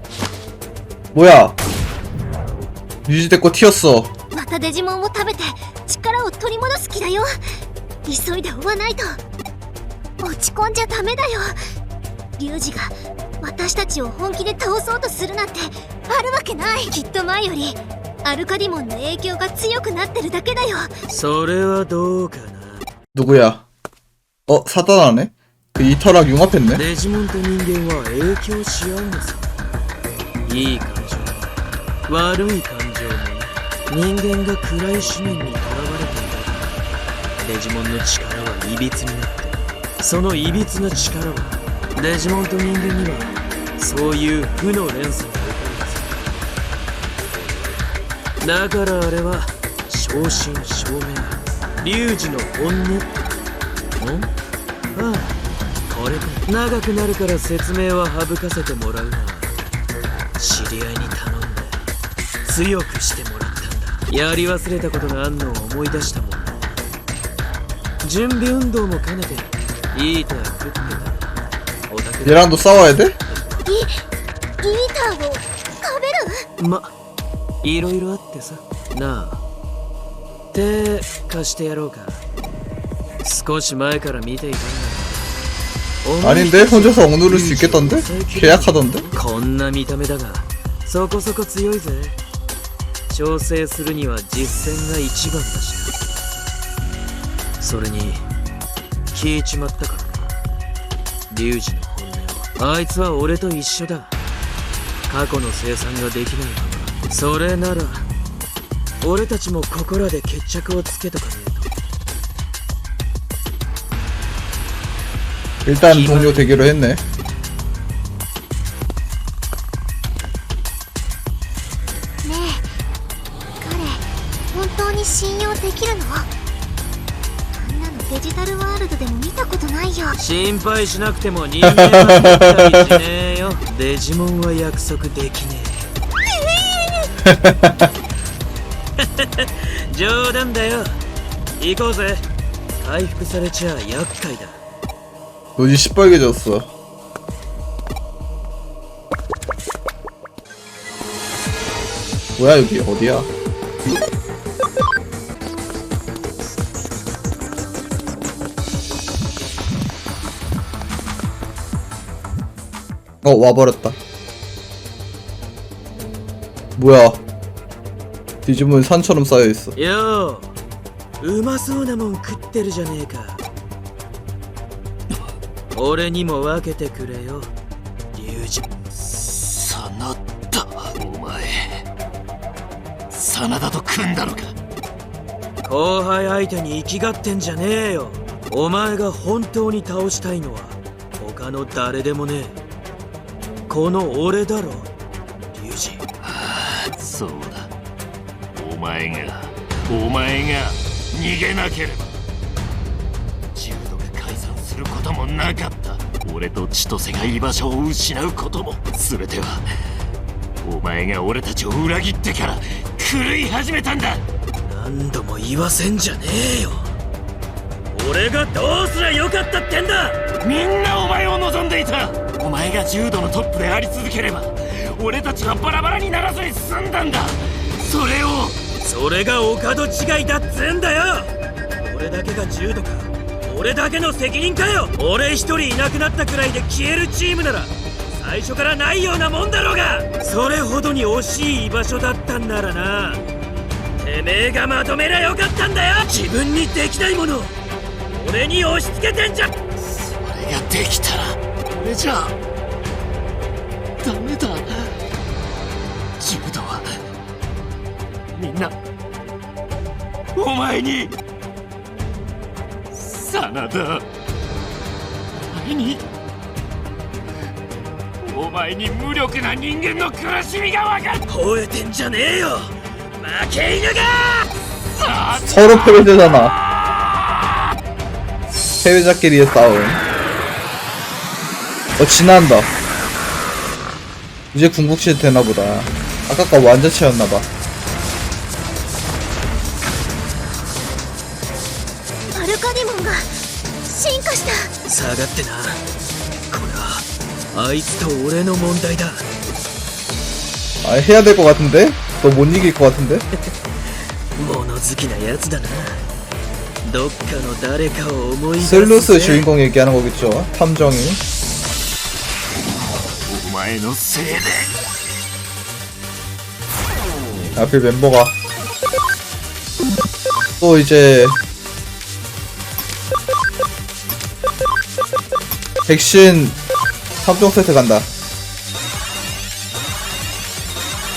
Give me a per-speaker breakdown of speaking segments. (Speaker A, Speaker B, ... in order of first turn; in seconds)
Speaker A: 1.1-1.6, 3.0-4.1, 23.1-23.6, 24.5-26.8, 72.2-73.2, 86.2-89.1, 115.6-117.0, 131.6-132.8, 137.2-137.9, 145.6-146.7, 152.4-153.3, 163.2-164.0, 166.8-167.2, 168.4-169.7, 275.5-276.5, 278.8-280.0, 282.0-282.7, 284.5-287.5, 300.8-303.2, 308.6-311.2, 317.5-318.3, 320.6-321.4, 325.9-326.6, 327.2-328.1
Speaker B: 4.3-7.3, 8.0-9.2, 10.2-11.6, 12.4-20.9, 73.6-74.0, 74.6-76.4, 122.2-122.7, 123.6-126.3, 127.5-130.1, 292.3-294.7
Speaker C: 21.1-22.8, 26.7-29.5, 30.4-31.5, 32.1-36.8, 37.4-46.3, 47.3-47.8, 48.4-53.1, 54.0-54.3, 54.9-55.3, 55.9-59.5, 60.4-61.9, 62.4-66.8, 68.0-71.3, 71.9-73.6, 76.6-76.9, 77.6-79.4, 80.5-82.2, 83.2-85.3, 86.0-92.2, 93.1-96.0, 97.6-98.3, 99.1-100.4, 101.3-104.1, 105.1-108.1, 109.0-111.7, 115.8-116.7, 130.2-135.9, 139.0-141.0, 141.6-144.6, 169.8-170.5, 171.2-173.4, 175.7-177.5, 178.1-178.8, 185.6-192.6, 193.7-194.9, 195.5-196.0, 214.6-216.9, 217.9-220.2, 228.8-243.2, 244.0-247.5, 248.1-249.5, 271.3-274.5, 294.9-295.8, 296.5-299.2, 304.4-306.0, 306.8-309.5
Speaker D: 179.0-181.8, 183.1-184.5, 196.2-197.7, 198.5-202.2, 203.5-209.6, 210.6-214.2, 220.4-228.6, 249.8-252.3, 254.0-254.9, 256.2-256.9, 258.3-258.7, 260.3-261.1, 262.9-264.0, 265.5-266.0, 268.2-271.2, 274.9-275.7, 313.2-314.7